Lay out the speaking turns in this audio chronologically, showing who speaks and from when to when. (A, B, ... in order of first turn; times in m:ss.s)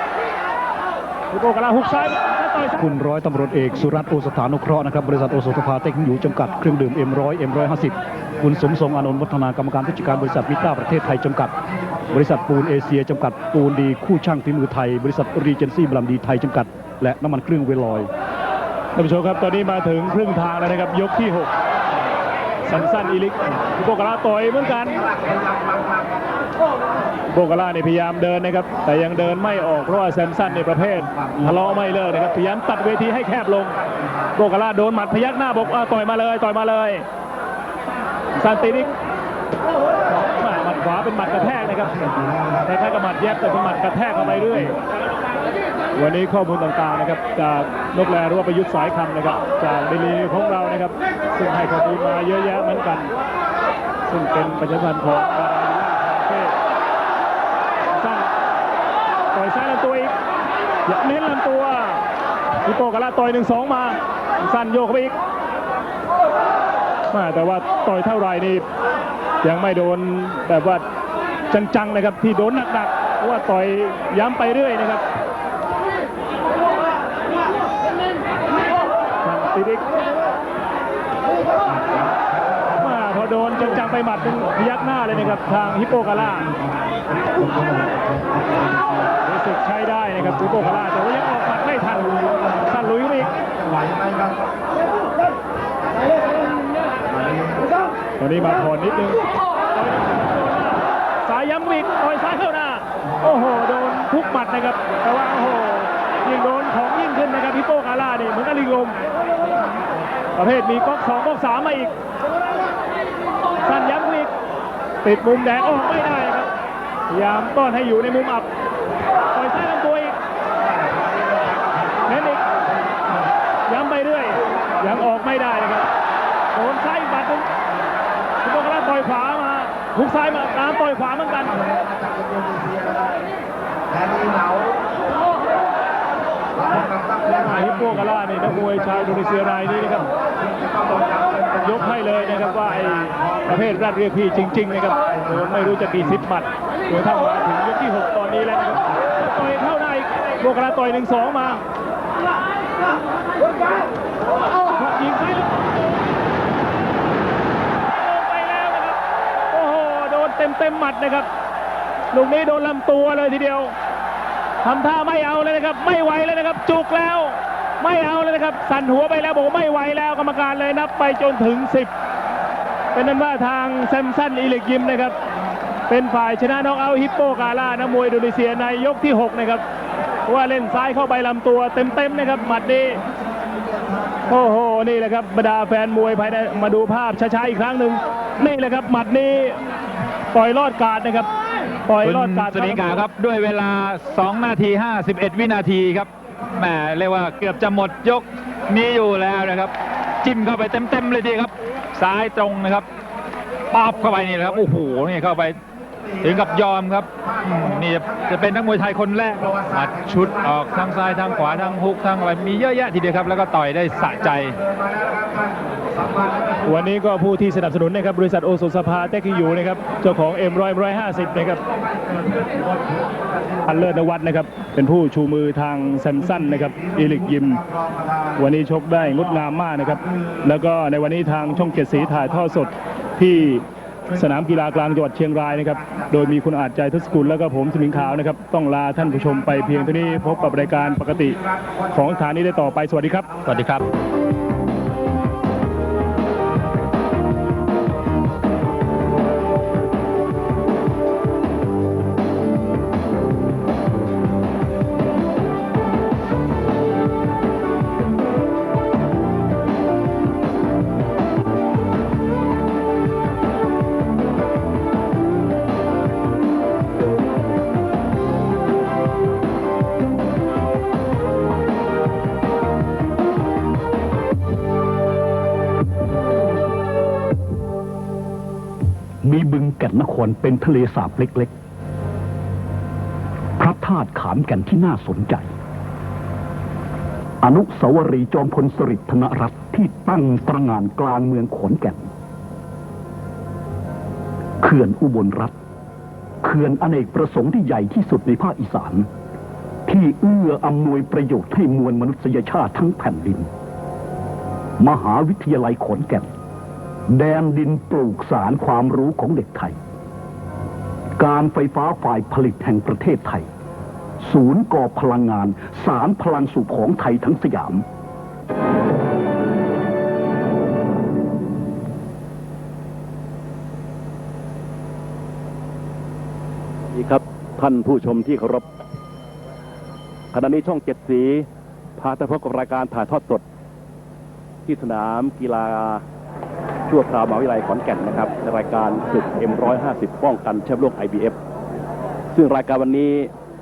0:01.3-0:02.8 A
0:02.8-0:18.1 B
0:19.0-0:21.5 A
0:22.7-0:25.1 A
0:24.9-0:26.1 C
0:27.3-0:33.8 A
0:29.3-0:31.4 C
0:34.4-0:37.0 A
0:38.4-0:38.9 A
0:40.2-0:42.0 A
0:42.0-0:42.6 C
0:42.7-0:44.8 A
0:46.0-0:53.1 A
0:54.1-0:56.6 A
0:57.9-0:58.3 A
0:59.3-1:00.2 A
1:00.9-1:02.0 A
1:02.6-1:05.2 A
1:07.1-1:08.6 A
1:09.4-1:10.8 A
1:11.5-1:15.0 A
1:19.2-1:19.9 A
1:22.8-1:26.5 A
1:25.1-1:28.8 C
1:29.2-1:33.3 A
1:31.6-1:32.4 C
1:33.3-1:34.4 C
1:37.4-1:37.7 C
1:38.2-1:49.1 A
1:50.4-1:51.9 A
1:53.6-1:54.3 A
1:55.0-1:56.5 A
1:57.1-1:58.5 A
1:59.3-2:00.2 A
2:00.6-2:02.4 C
2:02.1-2:02.4 A
2:03.7-2:05.9 A
2:06.5-2:07.5 A
2:08.4-2:11.6 A
2:11.5-2:13.1 C
2:13.9-2:14.8 C
2:16.6-2:17.9 C
2:17.4-2:20.1 A
2:18.5-2:24.2 C
2:21.6-2:31.6 A
2:24.9-2:25.9 C
2:34.7-2:36.0 A
2:37.8-2:39.0 A
2:39.5-2:41.3 A
2:42.1-2:43.8 A
2:44.6-2:51.9 A
2:52.9-2:55.2 A
2:55.9-2:59.6 A
3:00.3-3:03.0 A
3:04.3-3:09.6 A
3:10.3-3:11.3 A
3:11.9-3:13.1 A
3:12.0-3:22.9 D
3:23.7-3:25.6 D
3:26.2-3:34.6 D
3:29.4-3:30.1 C
3:34.6-3:36.5 C
3:36.6-3:41.6 A
3:42.0-3:43.2 C
3:43.6-3:47.6 A
3:47.6-3:48.0 C
3:48.4-4:03.3 A
4:03.5-4:03.8 D
4:39.2-4:41.5 B
4:43.6-4:45.5 B
4:47.4-4:52.1 B
4:54.6-4:55.6 B
4:56.4-4:59.1 B
4:59.9-5:03.5 B
5:04.8-5:06.3 B
5:07.1-5:09.8 B
5:11.2-5:13.5 B
5:14.2-5:17.9 B
5:26.9-5:28.6 E
5:30.3-5:31.5 E
5:32.0-5:33.4 E
5:34.7-5:36.0 E
5:36.9-5:41.4 E
5:42.3-5:43.3 E